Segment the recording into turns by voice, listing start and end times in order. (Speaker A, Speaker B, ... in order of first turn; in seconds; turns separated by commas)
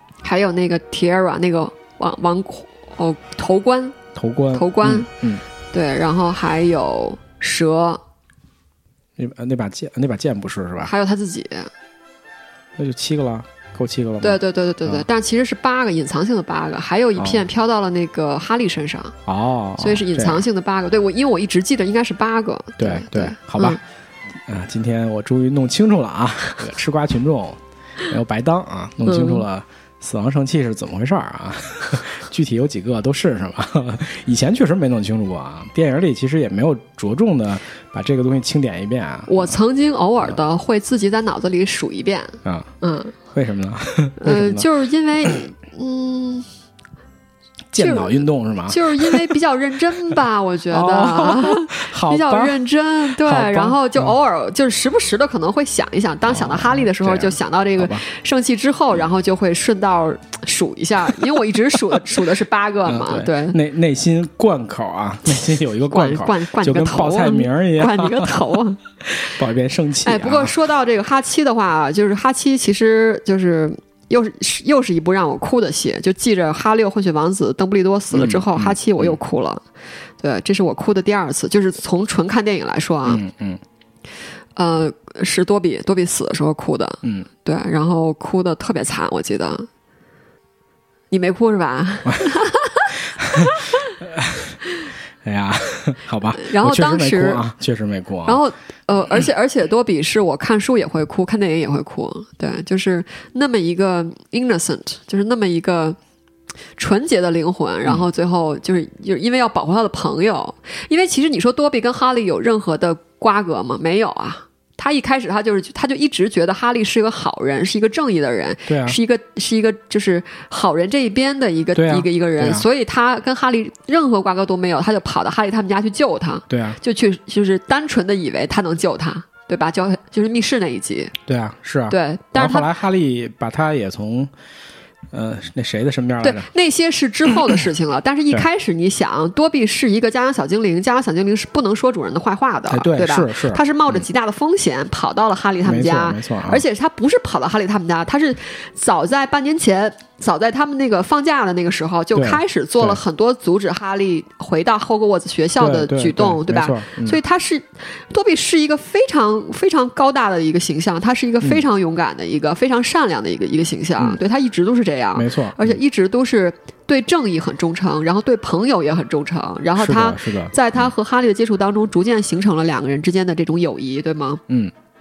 Speaker A: 0.2-4.0, Speaker B: 4.1-5.4, Speaker A: 4.5-5.1, Speaker A: 5.7-8.0, Speaker B: 9.2-10.9, Speaker A: 10.8-11.7, Speaker B: 12.8-15.0, Speaker A: 14.2-19.1, Speaker B: 19.2-20.4, Speaker A: 19.8-23.8, Speaker B: 22.8-23.8, Speaker B: 24.5-39.5, Speaker A: 29.1-29.4, Speaker A: 39.3-43.1, Speaker B: 42.4-42.7, Speaker B: 43.3-44.6, Speaker A: 44.2-46.5, Speaker B: 47.7-49.3, Speaker A: 47.8-63.6, Speaker B: 50.7-54.1, Speaker B: 56.3-58.0, Speaker B: 62.9-68.4, Speaker A: 65.9-68.8, Speaker B: 69.0-70.5, Speaker A: 70.0-79.6, Speaker B: 78.1-79.2, Speaker A: 80.2-83.2, Speaker B: 83.0-83.6, Speaker A: 84.6-89.7, Speaker B: 87.0-87.3, Speaker A: 91.1-93.9, Speaker B: 93.2-94.6, Speaker B: 95.2-98.4, Speaker A: 96.3-97.4, Speaker A: 98.2-106.0, Speaker A: 106.8-131.1, Speaker B: 118.7-119.0, Speaker B: 121.7-122.6, Speaker B: 126.5-126.8, Speaker B: 131.3-134.3, Speaker A: 131.9-132.7, Speaker B: 135.1-136.5, Speaker A: 136.2-174.4, Speaker B: 137.3-137.5, Speaker B: 142.7-144.1, Speaker B: 145.6-146.6, Speaker B: 152.1-153.0, Speaker B: 155.6-157.2, Speaker B: 165.1-165.8, Speaker B: 169.8-170.5